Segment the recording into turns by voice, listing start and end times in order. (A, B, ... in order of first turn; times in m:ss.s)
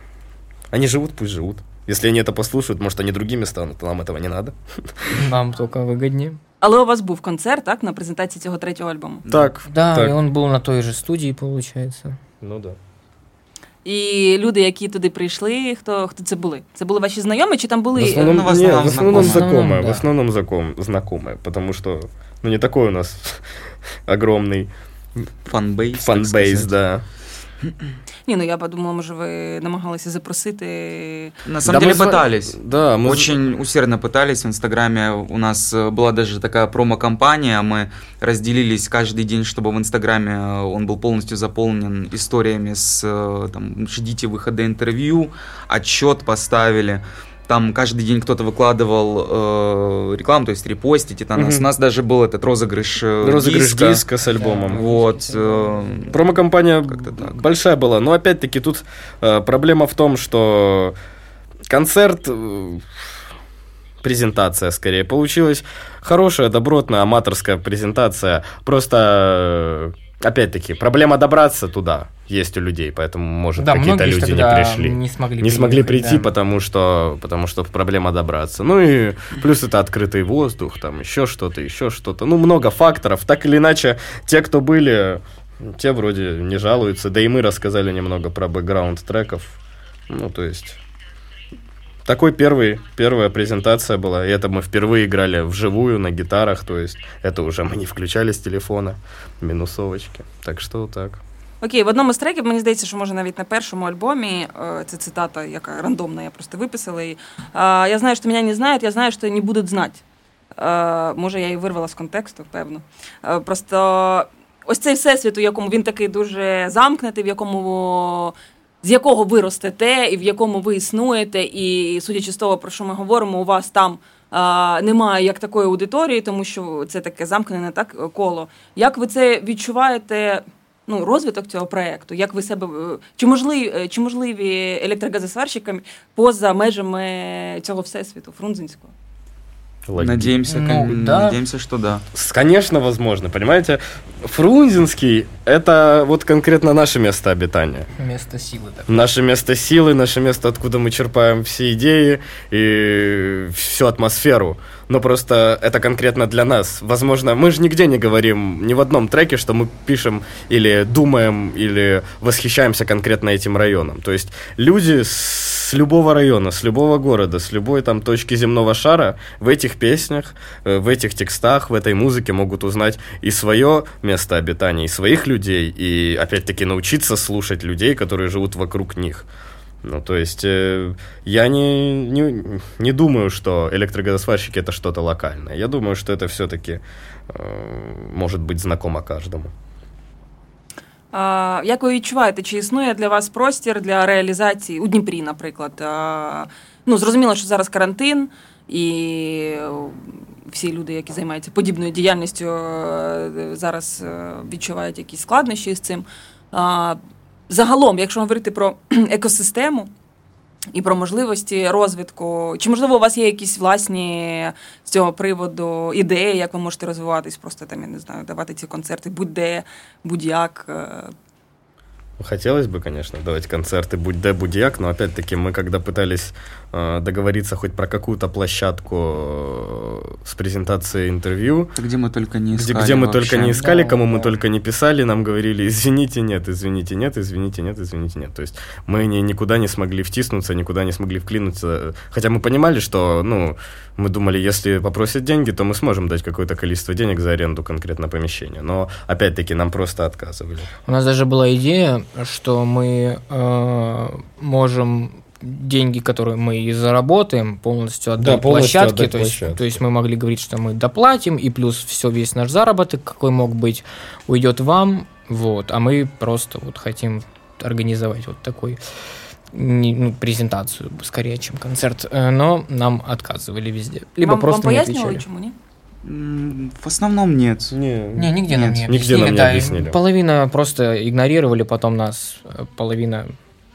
0:00.7-0:05.2 A
0:05.1-0:06.4 B
0:06.6-0:09.3 C
0:09.3-0:10.1 A
0:09.6-0:12.2 B
0:12.4-0:12.8 A
0:13.8-0:18.6 C
0:18.0-0:23.4 A
0:18.0-0:19.5 D
0:19.1-0:20.0 B
0:24.1-0:24.7 A
0:25.5-0:26.7 D
0:26.0-0:27.0 A
0:28.3-0:31.4 C
0:31.4-0:54.0 D
0:31.6-0:33.3 A
0:51.4-0:51.7 A
0:53.2-0:54.9 A
0:54.2-0:56.2 B
0:54.6-0:56.3 D
0:56.1-1:01.0 A
0:56.9-0:57.4 D
1:01.7-1:03.1 A
1:04.0-1:29.6 A
1:13.6-1:16.3 B
1:30.1-1:30.8 A
1:32.0-1:41.2 A
1:41.6-1:50.0 C
1:50.6-2:18.9 C
2:19.9-2:20.4 A
2:20.0-2:22.0 D
2:20.5-2:21.4 B
2:22.1-2:27.9 A
2:28.0-2:29.0 B
2:28.9-2:59.3 A
2:59.8-3:09.5 A
3:11.1-3:29.9 C
3:30.7-3:41.1 C
3:42.2-3:51.7 A
3:51.8-3:53.6 D
3:52.5-4:10.7 A
3:53.5-3:54.4 B
4:10.9-4:28.8 B
4:18.2-4:19.8 A
4:29.5-4:35.2 B
4:34.2-4:35.6 C
4:36.0-4:37.8 D
4:37.7-4:40.0 A
4:38.2-4:43.3 B
4:38.5-4:38.8 D